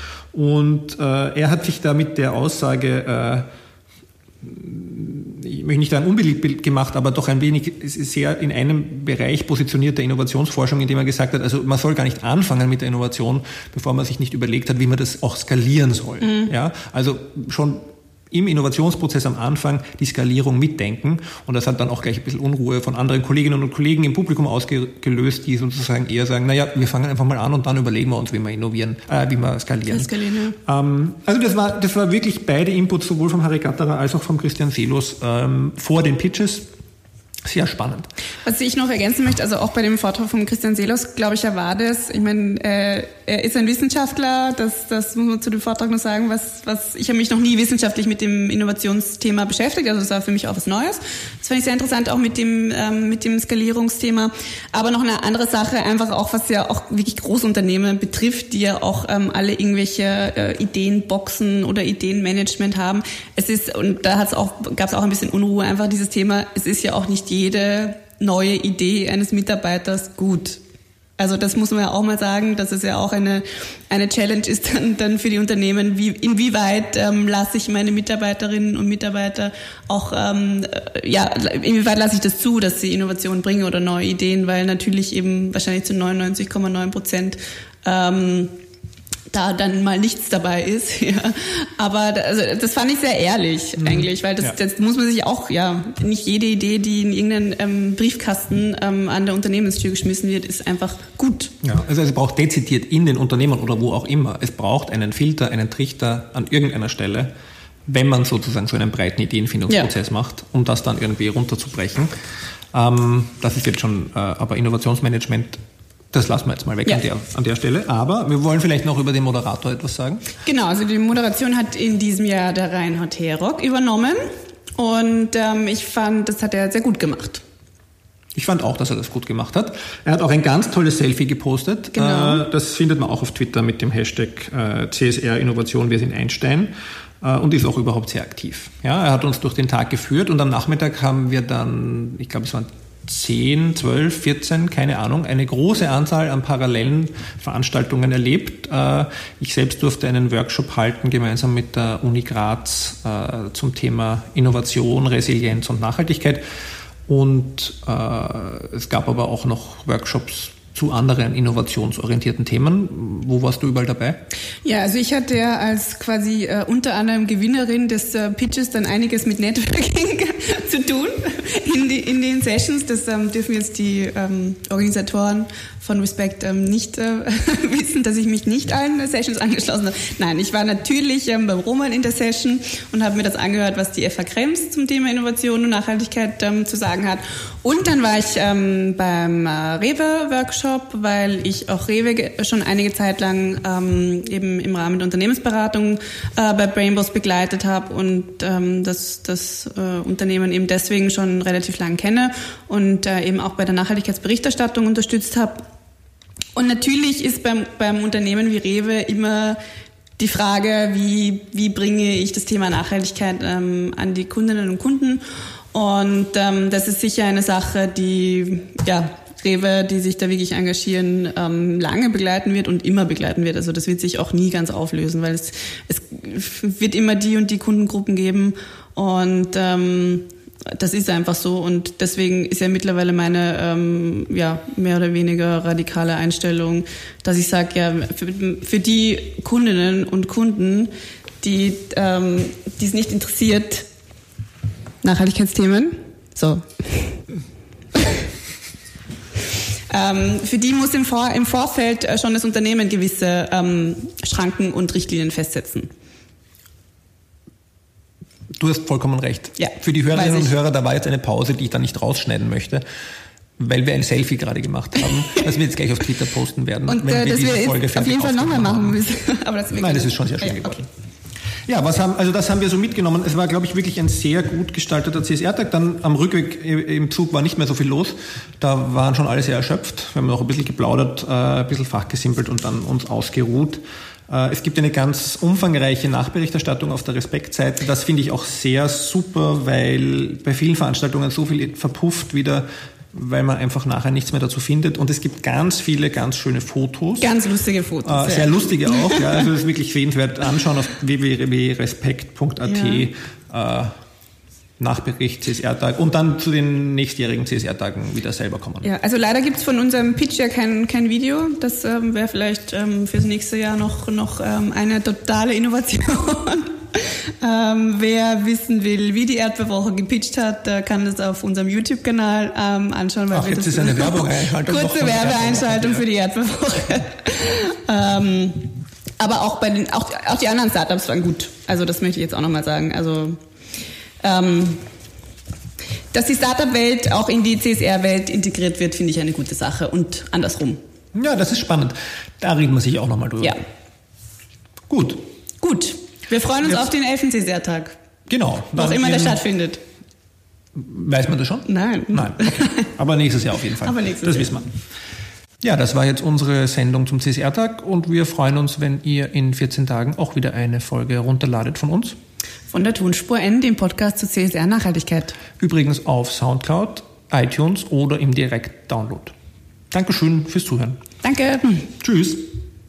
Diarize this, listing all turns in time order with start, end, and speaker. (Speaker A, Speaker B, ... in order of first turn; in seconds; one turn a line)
Speaker A: 0.3-3.5
Speaker A: 4.4-30.1
Speaker B: 16.2-16.5
Speaker B: 29.9-30.6
Speaker A: 30.6-36.7
Speaker A: 37.5-38.1
Speaker B: 38.4-70.6
Speaker B: 71.2-88.5
Speaker B: 89.3-101.5
Speaker A: 93.8-94.5
Speaker A: 101.6-107.3
Speaker A: 107.9-112.1
Speaker A: 112.7-115.6
Speaker A: 116.1-120.2
Speaker B: 120.4-124.2
Speaker B: 124.8-127.4
Speaker A: 128.3-156.4
Speaker B: 131.9-132.4
Speaker A: 157.1-164.2
Speaker B: 164.6-205.7
Speaker B: 206.5-209.6
Speaker B: 210.2-215.2
Speaker B: 215.7-240.9
Speaker B: 241.4-243.8
Speaker B: 245.0-247.2
Speaker B: 249.9-255.9
Speaker A: 258.6-262.8
Speaker B: 259.6-260.5
Speaker A: 263.6-269.0
Speaker B: 266.9-270.8
Speaker A: 269.8-270.9
Speaker A: 271.7-297.3
Speaker B: 297.2-299.4
Speaker A: 298.0-303.9
Speaker B: 302.6-303.1
Speaker A: 304.8-308.9
Speaker B: 308.8-333.4
Speaker A: 323.3-326.0
Speaker B: 334.2-334.9
Speaker B: 336.1-340.8
Speaker A: 341.1-343.6
Speaker A: 344.9-345.2
Speaker B: 345.6-347.9
Speaker A: 348.3-349.4
Speaker B: 348.7-349.8
Speaker A: 350.7-354.6
Speaker B: 351.6-352.9
Speaker B: 353.8-354.6
Speaker A: 355.6-362.1
Speaker B: 362.7-365.4
Speaker A: 365.6-369.3
Speaker A: 369.9-371.0
Speaker B: 371.2-371.9
Speaker A: 372.0-372.5